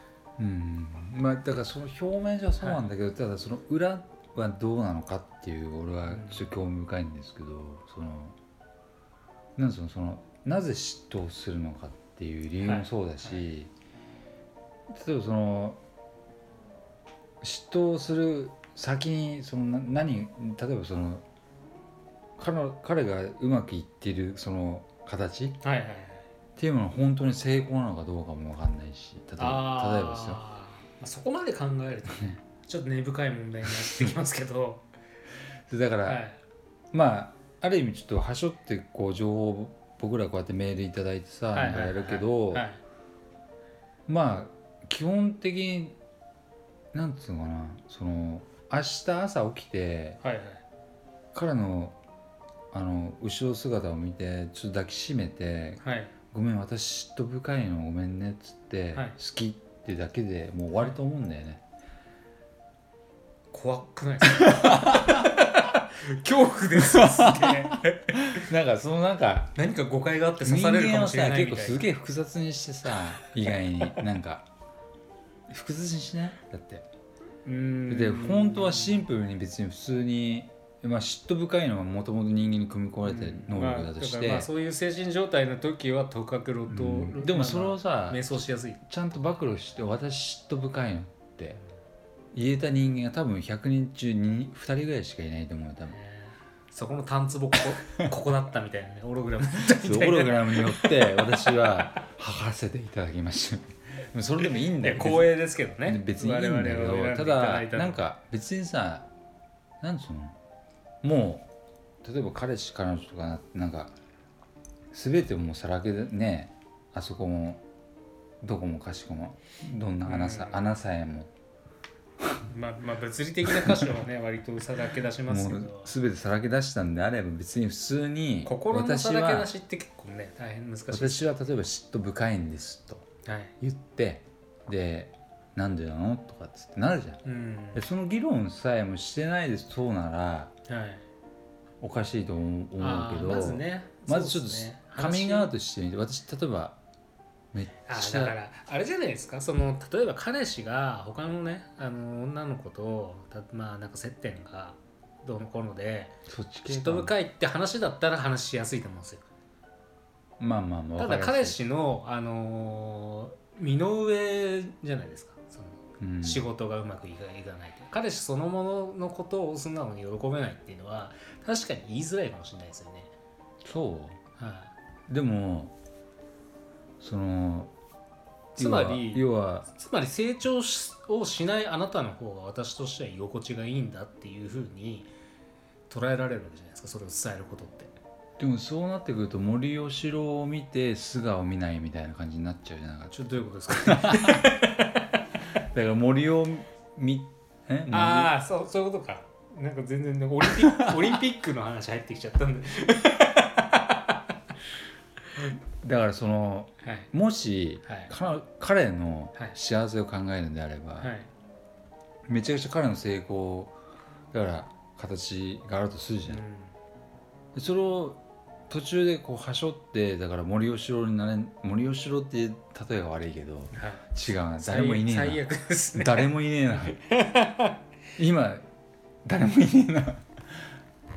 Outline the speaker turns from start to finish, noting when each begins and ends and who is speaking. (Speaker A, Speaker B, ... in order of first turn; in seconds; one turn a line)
Speaker A: 0.4-8.3
Speaker B: 2.6-2.9
Speaker B: 6.1-6.5
Speaker A: 9.6-13.7
Speaker B: 12.6-13.4
Speaker A: 14.9-15.8
Speaker A: 17.4-21.2
Speaker A: 22.4-25.6
Speaker B: 25.6-26.3
Speaker A: 26.6-30.4
Speaker B: 29.4-34.8
Speaker A: 35.7-36.2
Speaker B: 36.0-36.4
Speaker A: 36.9-42.6
Speaker B: 41.5-42.8
Speaker A: 44.1-46.0
Speaker A: 46.9-50.2
Speaker B: 50.2-50.6
Speaker A: 51.3-52.0
Speaker A: 52.7-61.6
Speaker B: 55.8-56.1
Speaker B: 63.5-68.4
Speaker A: 64.4-65.3
Speaker A: 66.8-69.5
Speaker B: 69.5-71.8
Speaker A: 70.4-74.5
Speaker A: 75.5-76.8
Speaker B: 77.4-79.0
Speaker A: 77.9-84.5
Speaker B: 83.0-88.8
Speaker A: 86.7-91.6
Speaker A: 92.3-96.0
Speaker B: 95.9-101.5
Speaker A: 99.6-109.1
Speaker B: 104.4-108.0
Speaker A: 109.8-110.4
Speaker A: 111.0-111.5
Speaker A: 112.0-113.9
Speaker A: 114.9-117.6
Speaker A: 118.4-121.3
Speaker B: 120.0-120.7
Speaker B: 122.5-125.9
Speaker A: 123.5-123.9
Speaker A: 125.3-129.5
Speaker B: 128.4-131.3
Speaker A: 130.9-133.1
Speaker B: 133.2-133.5
Speaker A: 133.6-137.2
Speaker B: 137.2-137.8
Speaker A: 137.7-140.5
Speaker B: 140.7-141.0
Speaker A: 141.8-146.8
Speaker B: 142.8-145.5
Speaker A: 147.5-148.3
Speaker B: 147.8-156.2
Speaker A: 156.3-157.1
Speaker B: 156.7-159.2
Speaker A: 160.4-161.6
Speaker B: 161.0-173.1
Speaker A: 166.0-166.4
Speaker A: 173.6-174.2
Speaker B: 174.4-174.7
Speaker A: 175.1-175.7
Speaker A: 177.0-177.7
Speaker A: 178.5-179.7
Speaker B: 178.6-185.1
Speaker B: 185.9-187.9
Speaker A: 188.4-193.2
Speaker B: 193.1-195.0
Speaker A: 193.7-194.6
Speaker A: 195.5-198.3
Speaker B: 197.9-204.2
Speaker A: 200.6-201.0
Speaker A: 205.7-211.1
Speaker B: 206.8-207.1
Speaker B: 207.8-208.1
Speaker B: 211.0-211.3
Speaker A: 212.2-213.8
Speaker A: 214.3-216.4
Speaker B: 216.3-216.7
Speaker A: 217.5-227.0
Speaker B: 223.7-224.0
Speaker B: 224.6-226.3
Speaker B: 226.9-227.8
Speaker A: 228.2-228.7
Speaker A: 229.2-230.7